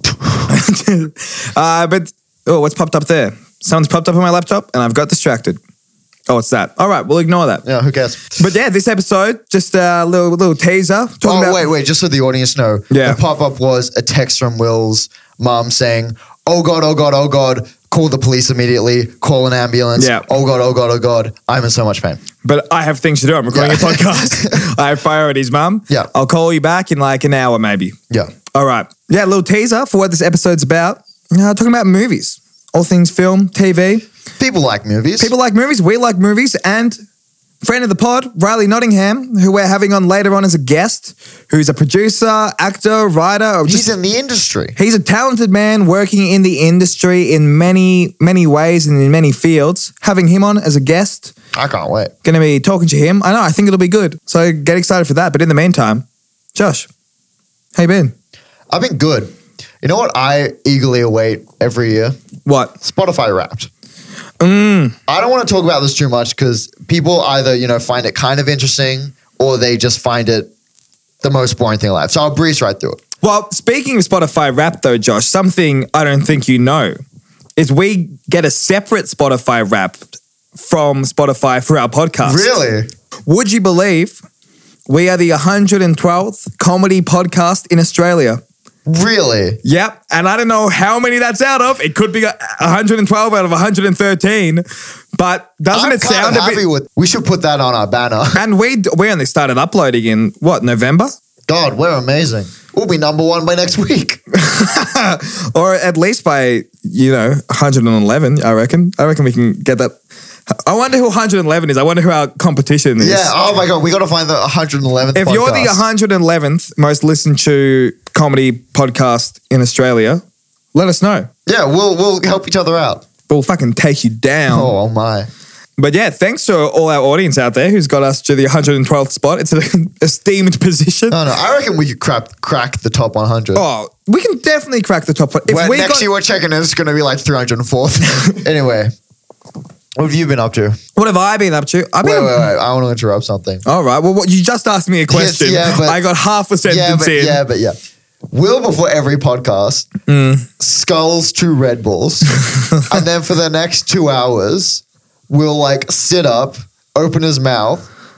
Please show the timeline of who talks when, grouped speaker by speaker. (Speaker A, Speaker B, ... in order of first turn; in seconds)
Speaker A: 0.5-5.6, 6.3-7.6, 8.4-11.6, 12.9-13.2, 20.0-20.3, 22.4-28.0, 28.5-34.1, 35.2-37.0, 37.6-43.9, 44.8-51.3, 52.2-56.9, 57.8-58.1, 62.5-62.8, 64.4-65.0, 73.2-77.0, 77.6-82.5, 83.3-84.2, 84.9-88.4, 89.6-94.6, 95.2-96.6, 98.3-101.1, 104.3-110.0, 110.5-113.3, 115.2-120.2, 120.7-121.3, 123.3-124.7, 125.8-131.2, 133.6-136.1, 141.0-142.5, 143.7-147.4, 150.1-150.5
Speaker B: 7.6-8.3, 11.2-22.2, 23.5-24.6, 34.4-35.3, 43.7-44.8, 51.5-52.1, 58.7-62.1, 62.8-63.7, 65.1-70.5, 71.2-73.0, 82.2-82.9, 88.9-89.6, 95.7-98.4, 101.5-104.2, 113.0-115.8, 121.5-123.0, 124.5-125.3, 131.1-133.6, 135.5-138.9, 140.0-140.8, 142.0-143.6, 145.1-146.0, 146.7-147.8, 148.3-149.9, 150.6-157.9